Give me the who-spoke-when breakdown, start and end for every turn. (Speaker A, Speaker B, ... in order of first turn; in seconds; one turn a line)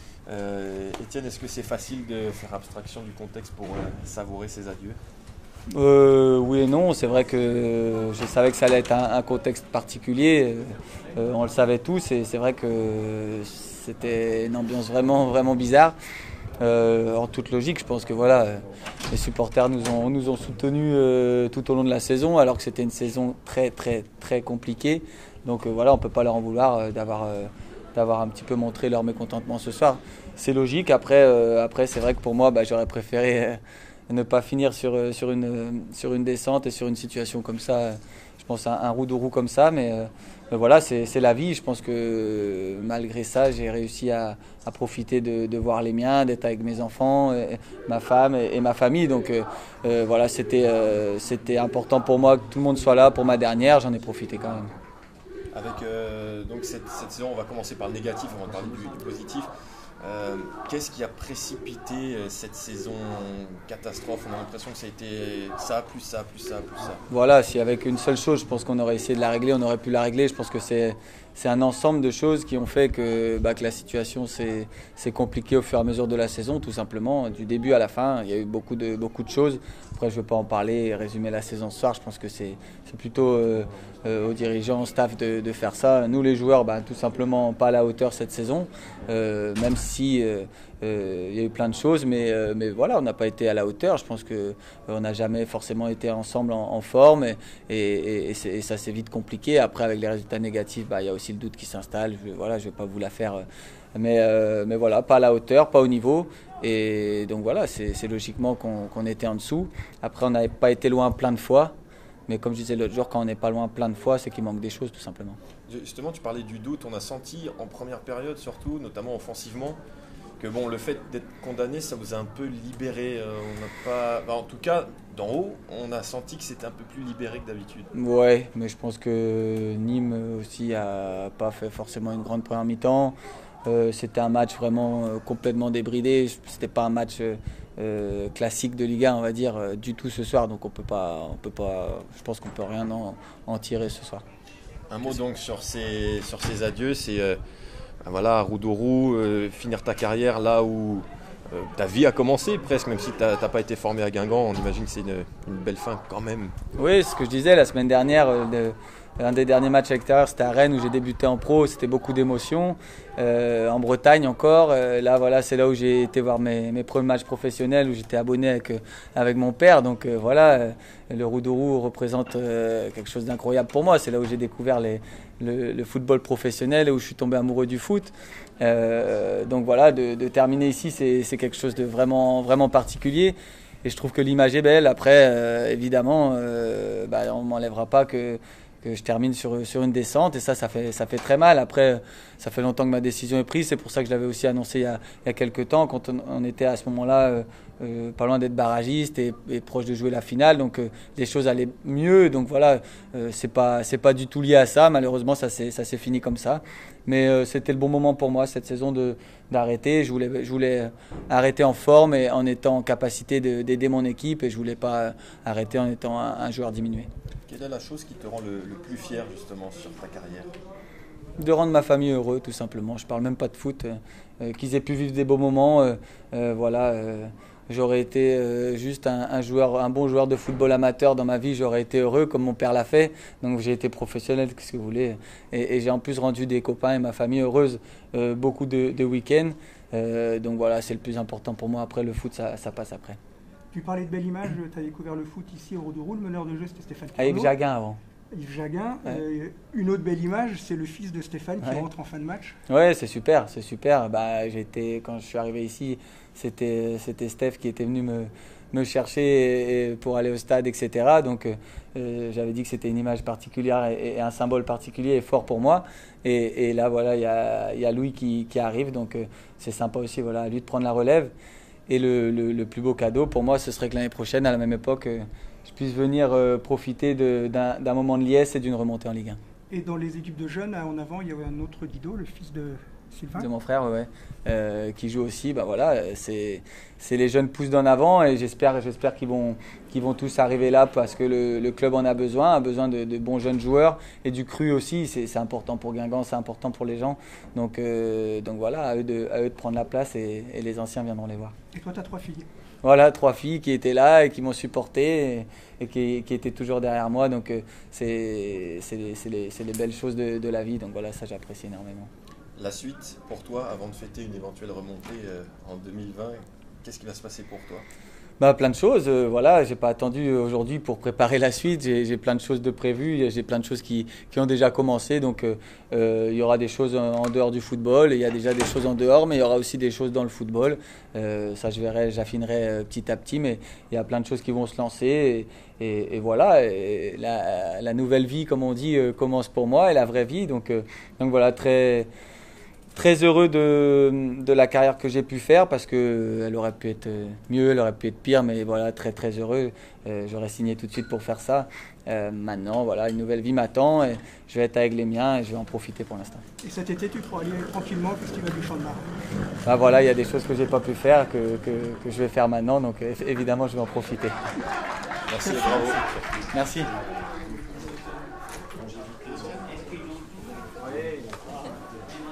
Speaker A: 0.3-5.0
Speaker B: 5.7-16.0
Speaker B: 16.6-54.7
Speaker A: 55.5-59.5
Speaker A: 60.0-67.0
Speaker B: 67.1-103.5
Speaker B: 104.0-111.7
Speaker B: 112.3-115.4
Speaker A: 115.7-119.8
Speaker A: 120.4-127.9
Speaker B: 127.9-144.2
Speaker A: 144.9-147.4
Speaker A: 148.0-156.5
Speaker B: 156.8-217.1
Speaker A: 217.5-220.5
Speaker B: 221.4-243.2
Speaker C: 243.7-247.5
Speaker B: 247.2-248.0
Speaker C: 248.3-252.6
Speaker B: 252.7-271.3
Speaker B: 271.9-279.4
Speaker C: 279.7-283.5
Speaker B: 283.3-301.5
Speaker C: 301.7-302.5
Speaker B: 302.8-312.1
Speaker A: 312.6-317.9
Speaker B: 318.4-342.1
Speaker B: 342.9-356.4
Speaker C: 356.6-359.1
Speaker B: 359.6-364.4
Speaker A: 365.3-367.0
Speaker B: 365.4-366.9
Speaker A: 368.8-370.2